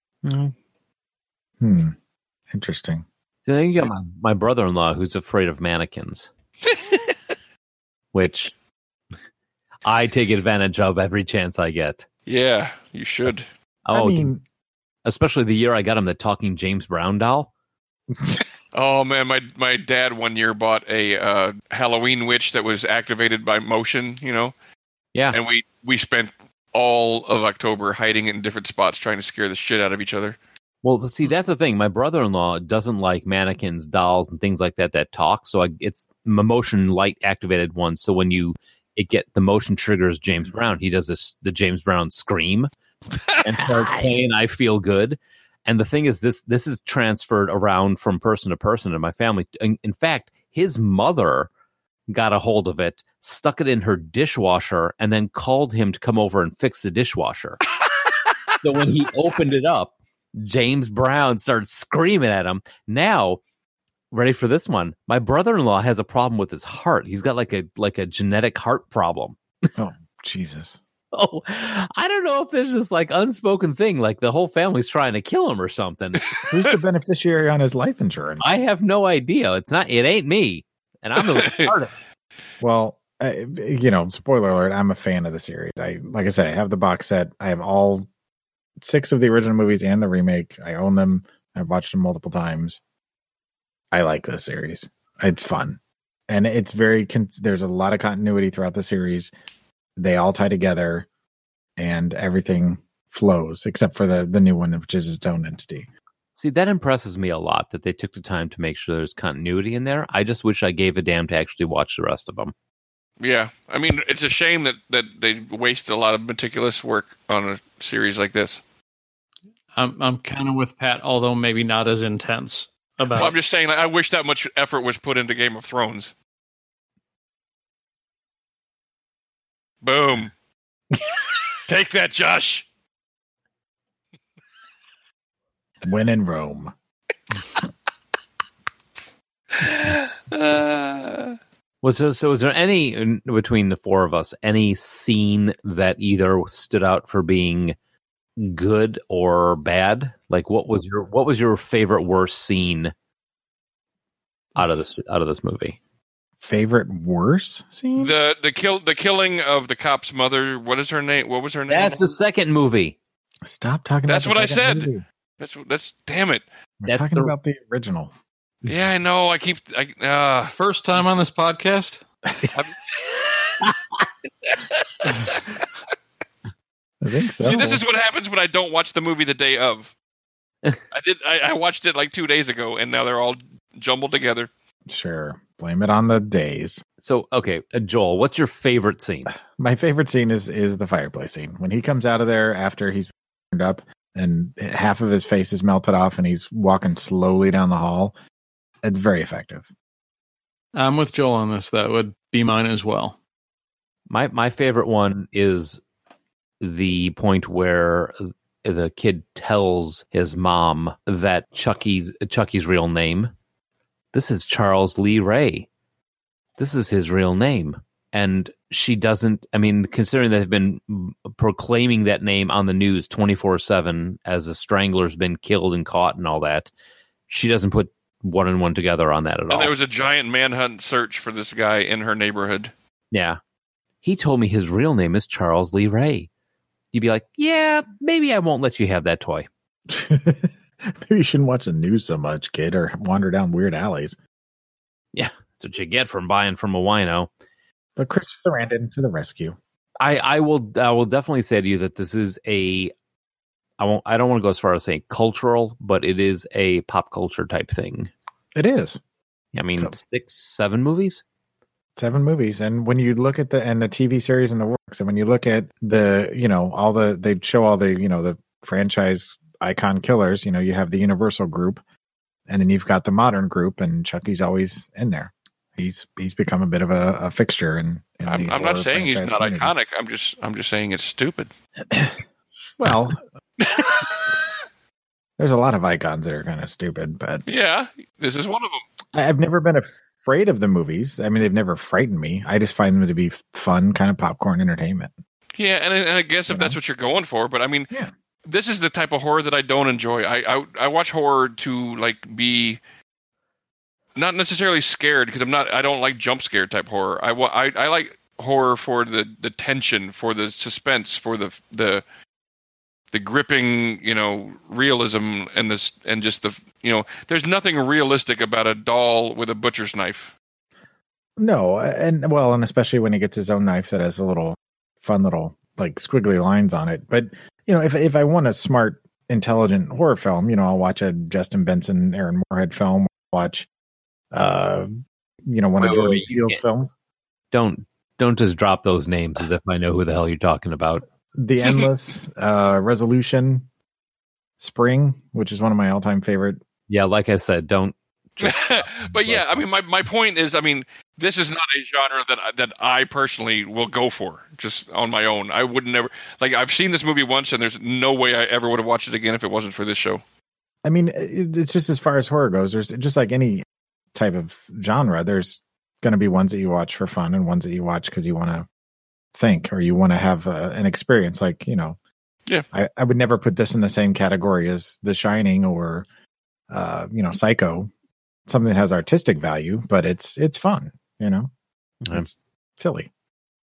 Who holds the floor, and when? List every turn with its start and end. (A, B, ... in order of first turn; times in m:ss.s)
0:00.2-0:00.5 A
0:01.6-0:01.9 B
0:02.5-0:03.0 B
0:03.4-0:06.3 A
0:06.7-0:07.1 C
0:08.1-0:08.5 A
0:09.8-0:12.0 A
0:12.3-0:13.4 C
0:13.8-0:14.3 A
0:13.9-0:14.4 B
0:15.0-0:17.5 A
0:18.7-0:24.5 C
0:25.3-0:30.4 C
0:30.8-0:42.7 A
0:43.2-0:44.0 C
0:43.4-0:51.5 A
0:52.1-0:57.6 A
0:58.6-1:03.4 A
1:04.1-1:09.4 A
1:09.8-1:10.8 B
1:11.1-1:16.2 A
1:16.5-1:18.5 B
1:18.4-1:21.9 A
1:21.3-1:21.7 C
1:22.6-1:28.1 B
1:28.8-1:32.8 B
1:33.9-1:39.3 B
1:40.0-1:41.1 B
1:41.8-1:45.9 B
1:46.4-1:52.5 A
1:53.2-1:58.6 C
1:59.7-2:03.3 D
2:03.2-2:06.1 C
2:09.8-2:10.3 C
2:11.7-2:12.6 C
2:15.8-2:16.7 B
2:19.6-2:21.4 C
2:21.8-2:27.7 A
2:28.4-2:32.9 A
2:34.6-2:35.8 A
2:36.4-2:38.1 B
2:38.0-2:42.1 C
2:41.7-2:43.0 A
2:43.4-2:45.0 B
2:44.1-2:44.9 C
2:45.4-2:46.4 C
2:46.8-2:48.1 B
2:46.8-2:47.3 A
2:48.6-2:50.5 C
2:50.5-2:52.0 D
2:52.5-2:53.6 C
2:54.4-2:55.4 C
2:57.0-2:57.8 B
2:57.4-2:59.9 C
3:00.9-3:04.5 C
3:04.9-3:06.8 B
3:07.0-3:09.3 A
3:09.6-3:18.1 B
3:18.8-3:19.7 B
3:20.7-3:23.2 D
3:24.1-3:25.8 A
3:26.6-3:33.3 A
3:34.1-3:35.7 A
3:36.6-3:46.7 A
3:47.3-3:49.7 A
3:49.5-3:52.7 C
3:53.1-3:53.4 A
3:54.0-3:56.3 A
3:56.9-3:59.5 A
3:59.9-4:04.2 B
4:05.1-4:07.3 A
4:08.0-4:09.6 B
4:10.0-4:12.9 A
4:13.8-4:18.1 A
4:18.5-4:19.0 B
4:19.5-4:21.2 A
4:22.0-4:31.8 B
4:32.5-4:39.7 B
4:38.3-4:41.5 C
4:41.9-4:42.2 B
4:42.8-4:43.2 B
4:43.6-4:44.2 C
4:45.4-4:47.4 B
4:47.5-4:48.8 C
4:49.1-4:55.1 B
4:55.6-4:57.9 C
4:56.5-4:56.8 B
4:58.4-5:02.8 C
5:04.2-5:12.0 C
5:13.1-5:20.3 C
5:21.4-5:33.7 B
5:34.3-5:34.9 B
5:35.5-5:36.9 B
5:35.8-5:36.6 A
5:37.5-5:41.0 A
5:41.4-5:43.7 B
5:44.6-5:46.6 B
5:46.9-5:49.4 A
5:48.4-6:00.2 C
6:00.8-6:08.7 B
6:09.3-6:12.0 B
6:12.7-6:16.0 B
6:16.7-6:17.9 B
6:18.5-6:21.5 B
6:22.1-6:23.1 B